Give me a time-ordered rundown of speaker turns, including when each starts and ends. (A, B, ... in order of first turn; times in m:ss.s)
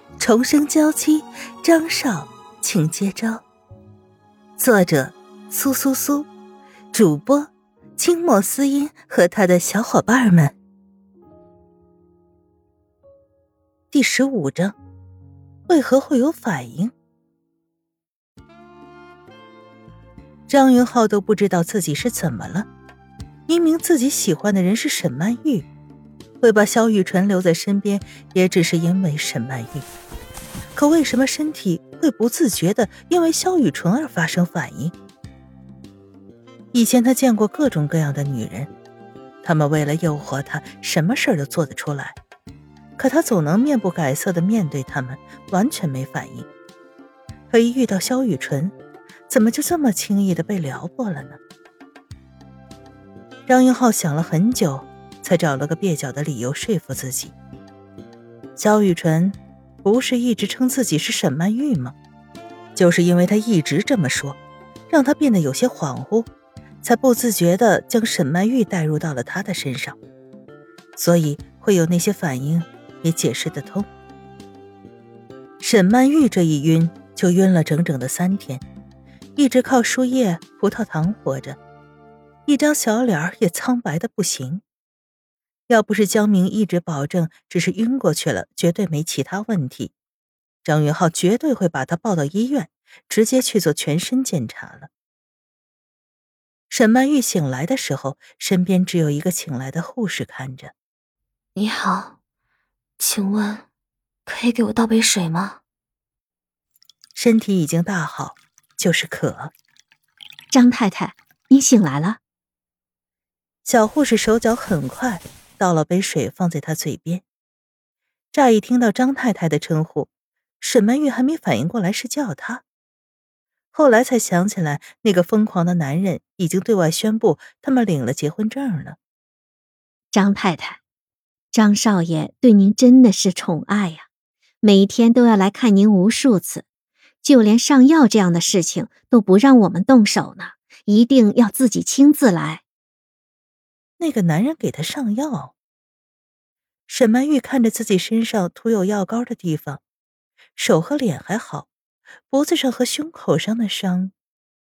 0:00.2-0:03.4 A
0:04.6-0:06.3 A
0:06.9-0:10.5 A
0:13.9-0:14.8 A
0:15.7-0:16.9 A
0:20.5-0:22.7 A
0:23.5-0:25.7 A
0:26.4-0:29.8 A
0:30.8-0:34.9 A
0:36.7-0:38.7 A
0:39.4-0:42.2 A
0:43.0-0:46.5 A
0:47.5-0:48.7 A
0:49.3-0:51.4 A
0:53.5-0:57.3 A
0:58.6-1:01.9 A
1:02.8-1:04.4 A
1:04.9-1:06.3 A
1:06.8-1:10.0 A
1:11.0-1:13.9 A
1:15.6-1:18.6 A
1:19.4-1:21.6 A
1:22.5-1:24.6 A
1:25.7-1:29.9 A
1:30.6-1:34.9 A
1:36.7-1:40.7 A
1:41.6-1:42.2 B
1:43.0-1:43.6 B
1:44.3-1:45.6 B
1:47.2-1:49.5 A
1:50.5-1:52.2 C
1:53.6-1:57.2 A
1:58.3-2:00.1 A
2:00.6-2:02.6 A
2:03.7-2:09.0 A
2:10.1-2:10.8 C
2:11.5-2:14.0 C
2:14.6-2:16.6 C
2:17.2-2:22.6 C
2:24.0-2:25.5 A
2:26.9-2:29.8 A
2:30.6-2:31.7 A
2:32.3-2:34.1 A